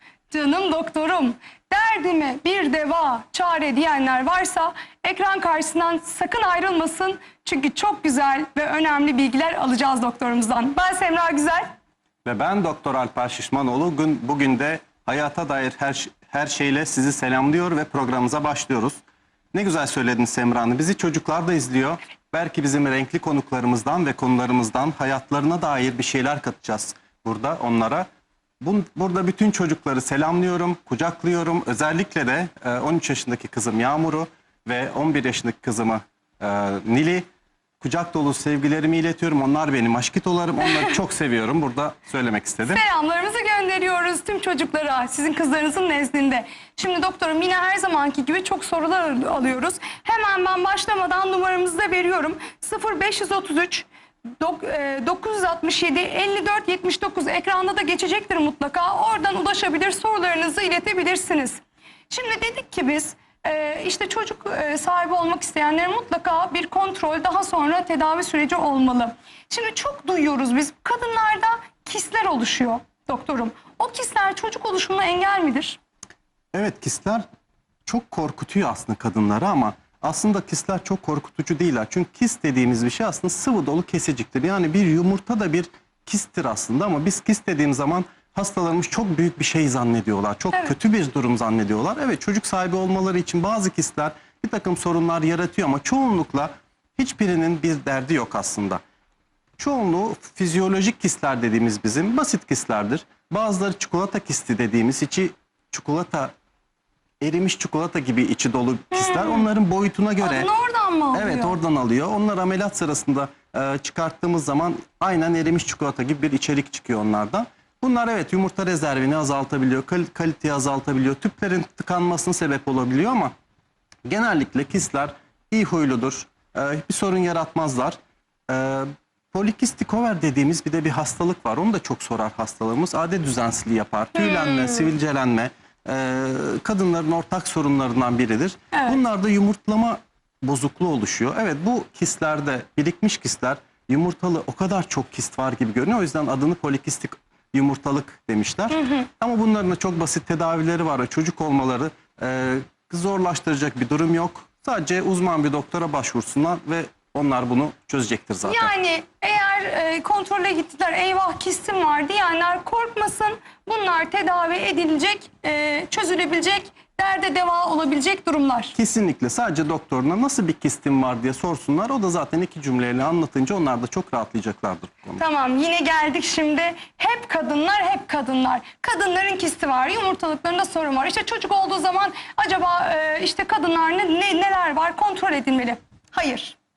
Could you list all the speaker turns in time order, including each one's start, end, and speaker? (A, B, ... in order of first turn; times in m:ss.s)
0:00.3-0:11.7 A
0:12.2-0:19.0 B
0:19.5-0:28.1 B
0:28.6-0:37.3 B
0:37.8-0:42.8 B
0:42.7-0:53.9 A
0:54.4-1:15.8 A
1:16.5-1:17.2 B
1:17.9-1:38.8 B
1:39.6-1:46.3 B
1:47.2-1:50.5 B
1:48.9-1:49.5 A
1:50.2-1:51.6 A
1:51.1-2:03.3 B
2:04.0-2:08.0 B
2:08.5-2:38.7 B
2:14.2-2:14.9 A
2:18.7-2:19.0 A
2:28.7-2:29.1 A
2:38.4-2:48.8 A
2:48.8-2:55.2 B
2:55.2-3:06.6 A